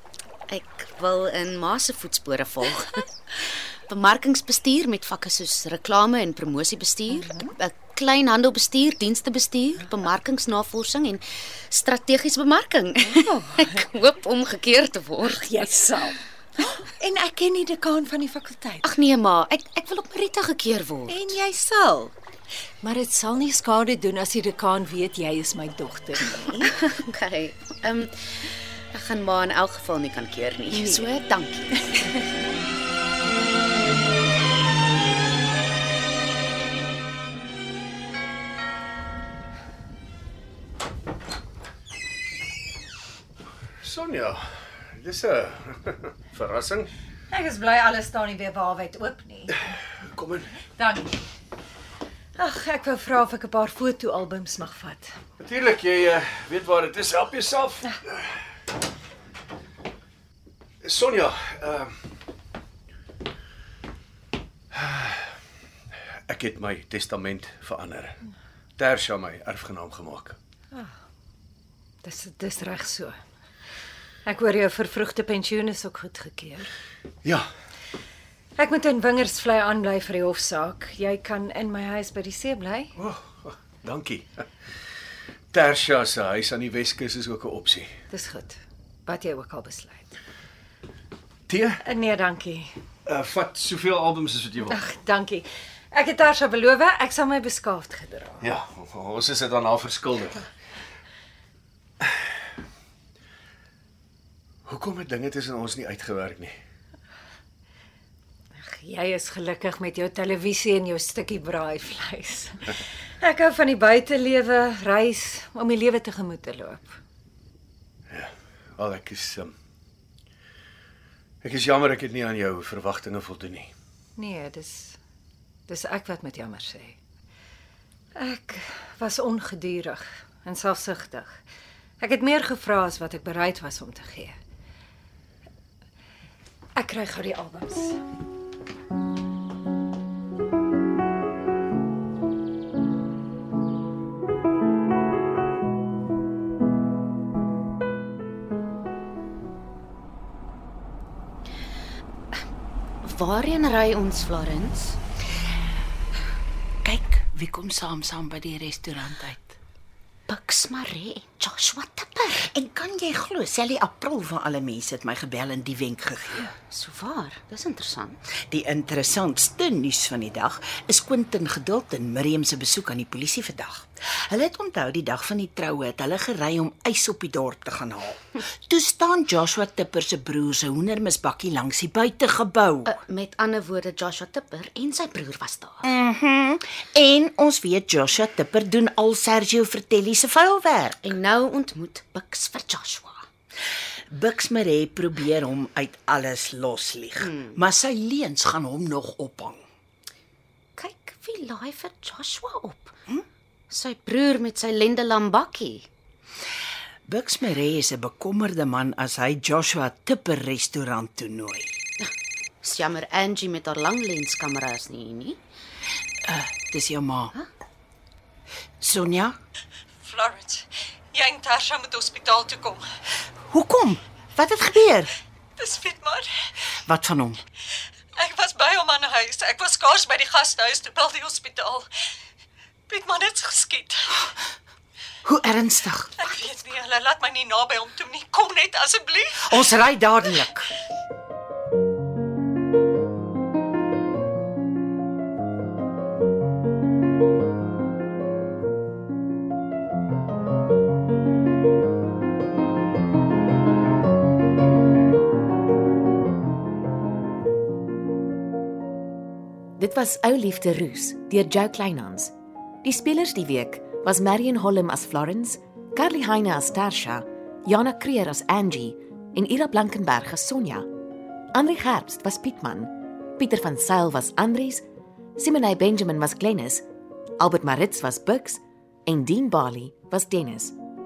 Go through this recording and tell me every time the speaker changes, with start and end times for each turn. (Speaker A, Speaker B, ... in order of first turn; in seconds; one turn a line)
Speaker A: 0.5-15.5
Speaker B: 7.1-7.5
Speaker B: 15.2-18.9
Speaker A: 18.8-21.4
Speaker B: 21.1-22.1
Speaker B: 22.8-26.7
Speaker A: 26.6-31.9
Speaker B: 30.7-31.1
Speaker C: 43.8-46.9
Speaker B: 47.3-49.7
Speaker C: 50.1-50.6
Speaker B: 50.8-51.1
Speaker B: 52.4-55.1
Speaker C: 55.4-58.4
Speaker C: 60.8-61.9
Speaker C: 64.7-65.3
Speaker C: 66.3-68.2
Speaker C: 68.8-70.4
Speaker B: 72.0-73.2
Speaker B: 74.2-76.7
Speaker B: 78.6-82.9
Speaker C: 83.0-84.4
Speaker C: 85.5-87.9
Speaker B: 88.1-90.2
Speaker C: 91.5-91.8
Speaker B: 91.8-92.7
Speaker C: 93.1-94.8
Speaker B: 94.7-98.5
Speaker C: 98.4-100.5
Speaker C: 104.7-106.6
Speaker B: 108.6-117.0
Speaker C: 118.1-119.5
Speaker C: 121.4-123.7
Speaker B: 124.2-125.0
Speaker B: 125.7-127.0
Speaker B: 128.2-131.4
Speaker B: 132.0-134.4
Speaker B: 136.8-138.0
Speaker A: 153.0-155.0
Speaker D: 156.8-159.6
Speaker A: 160.3-162.5
Speaker D: 162.5-166.5
Speaker A: 166.5-168.2
Speaker D: 168.5-182.9
Speaker A: 182.9-185.9
Speaker D: 185.8-191.1
Speaker A: 191.0-193.2
Speaker D: 194.1-199.6
Speaker A: 197.2-197.6
Speaker A: 200.8-203.0
Speaker A: 203.7-205.9
Speaker D: 207.1-211.7
Speaker A: 212.6-215.4
Speaker D: 216.2-217.3
Speaker D: 218.8-219.4
Speaker B: 220.0-222.8
Speaker D: 223.5-225.1
Speaker B: 225.6-226.5
Speaker D: 226.8-227.4
Speaker B: 228.2-231.9
Speaker B: 232.9-234.3
Speaker D: 235.2-236.1
Speaker B: 236.2-239.6
Speaker D: 239.5-240.7
Speaker E: 259.8-262.3
Speaker E: 262.8-270.9
Speaker E: 271.5-274.8
Speaker E: 275.4-276.9
Speaker E: 277.4-280.8